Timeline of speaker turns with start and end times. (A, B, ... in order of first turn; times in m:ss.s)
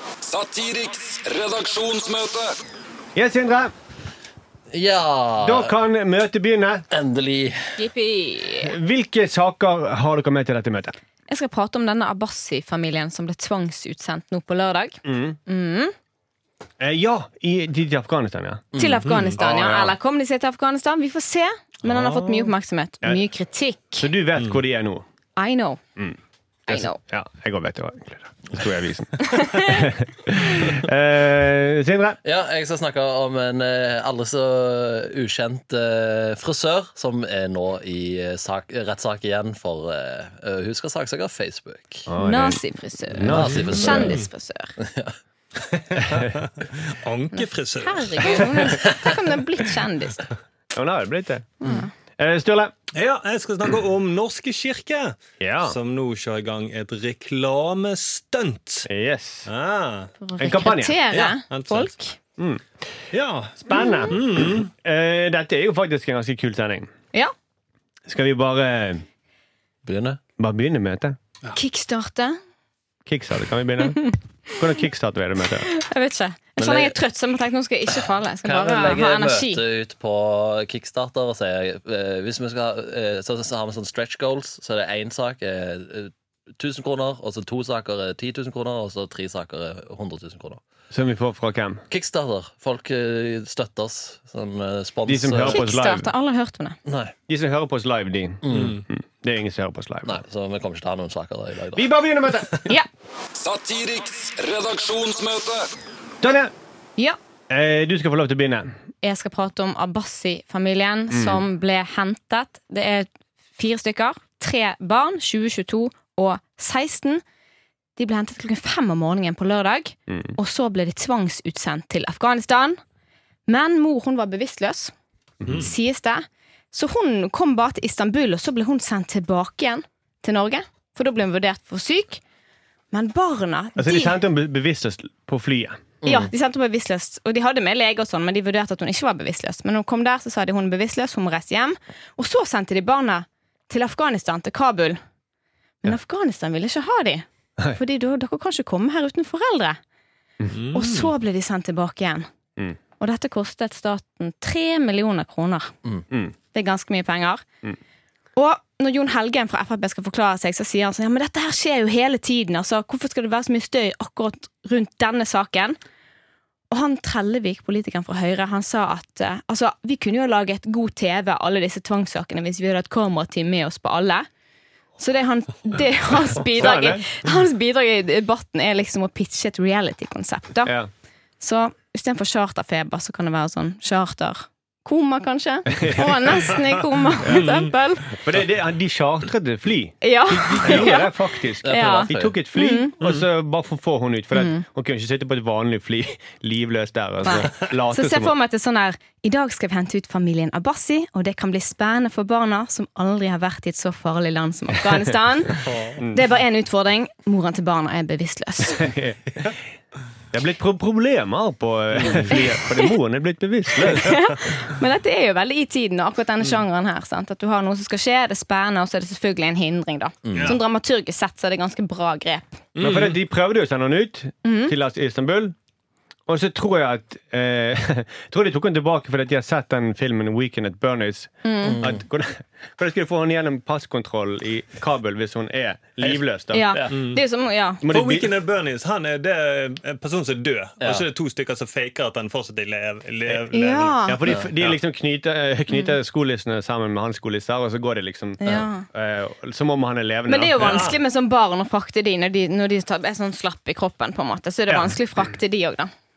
0:00.2-0:02.6 A
0:03.1-0:03.7 B
0:04.7-0:05.7 C
0:05.4-0:06.8 B
0:06.9-0:07.7 C
0:07.8-0:08.7 D
0:08.6-0:11.0 B
0:11.3-0:15.9 D
0:15.0-0:15.4 B
0:16.8-0:18.7 B
0:18.7-0:19.0 C
0:18.8-0:24.1 D
0:19.0-0:19.4 E
0:19.4-0:19.9 B
0:21.8-0:22.5 E
0:24.0-0:25.0 B
0:25.4-0:25.8 D
0:26.7-0:27.0 D
0:26.7-0:32.2 B
0:29.2-0:29.8 D
0:32.2-0:42.1 C
0:42.1-0:42.6 B
0:42.2-0:44.7 D
0:43.1-0:44.2 B
0:43.2-0:44.2 C
0:44.8-0:45.2 C
0:45.7-0:48.8 E
0:46.0-0:46.3 B
0:47.3-0:50.3 D
0:48.8-0:49.1 C
0:50.7-0:52.7 B
0:51.6-0:51.9 D
0:52.9-0:58.9 E
0:55.4-0:55.8 B
0:58.8-0:59.5 B
0:59.4-1:00.1 E
1:00.2-1:02.2 D
1:00.4-1:01.0 B
1:01.1-1:01.9 E
1:03.1-1:04.7 E
1:03.6-1:06.9 B
1:03.7-1:04.2 D
1:08.1-1:09.0 B
1:09.8-1:10.2 C
1:10.4-1:11.2 B
1:11.5-1:12.4 D
1:13.0-1:15.7 B
1:13.8-1:14.1 D
1:15.6-1:19.6 D
1:16.6-1:17.0 C
1:18.4-1:30.6 C
1:30.9-1:31.8 B
1:31.9-1:35.6 C
1:35.0-1:36.1 B
1:35.4-1:36.8 D
1:36.8-1:37.1 C
1:37.3-1:40.2 B
1:38.4-1:38.8 C
1:38.5-1:38.8 E
1:40.0-1:41.9 C
1:41.7-1:42.7 B
1:43.3-1:45.7 A
1:46.2-1:46.5 B
1:47.5-1:48.7 B
1:49.0-1:57.2 D
1:51.1-1:51.4 B
1:58.0-2:02.8 D
2:00.1-2:00.3 B
2:03.5-2:04.9 D
2:05.5-2:12.2 D
2:12.9-2:14.2 D
2:13.8-2:15.9 B
2:16.0-2:16.3 C
2:16.0-2:25.0 D
2:25.8-2:29.8 D
2:30.5-2:31.1 E
2:30.7-2:32.3 D
2:33.0-2:35.7 D
2:36.5-2:37.4 D
2:38.4-2:45.8 D
2:46.7-2:54.2 D
2:55.0-3:00.7 D
2:56.5-2:57.1 B
3:00.6-3:00.9 B
3:01.4-3:08.2 D
3:05.7-3:06.5 B
3:07.2-3:07.5 B
3:07.2-3:07.7 E
3:08.2-3:18.3 B
3:10.0-3:12.9 D
3:11.6-3:12.4 C
3:13.0-3:13.2 E
3:14.3-3:14.6 D
3:17.2-3:28.9 D
3:25.6-3:26.0 E
3:26.0-3:26.2 B
3:28.7-3:29.5 B
3:30.3-3:34.3 B
3:32.0-3:32.2 E
3:32.3-3:32.9 D
3:33.8-3:42.6 D
3:40.2-3:40.6 C
3:40.3-3:40.6 E
3:42.8-3:43.2 E
3:42.8-3:45.5 B
3:44.4-3:44.7 D
3:46.3-3:56.7 B
3:51.4-3:51.8 D
3:51.6-3:52.0 C
3:56.5-3:57.8 D
3:56.9-3:57.2 E
3:57.8-3:58.3 B
3:57.9-4:04.0 E
4:00.8-4:01.0 C
4:03.5-4:04.2 D
4:04.0-4:10.9 B
4:05.7-4:05.9 D
4:08.4-4:08.8 D
4:10.3-4:15.9 D
4:10.6-4:11.0 E
4:14.7-4:14.9 B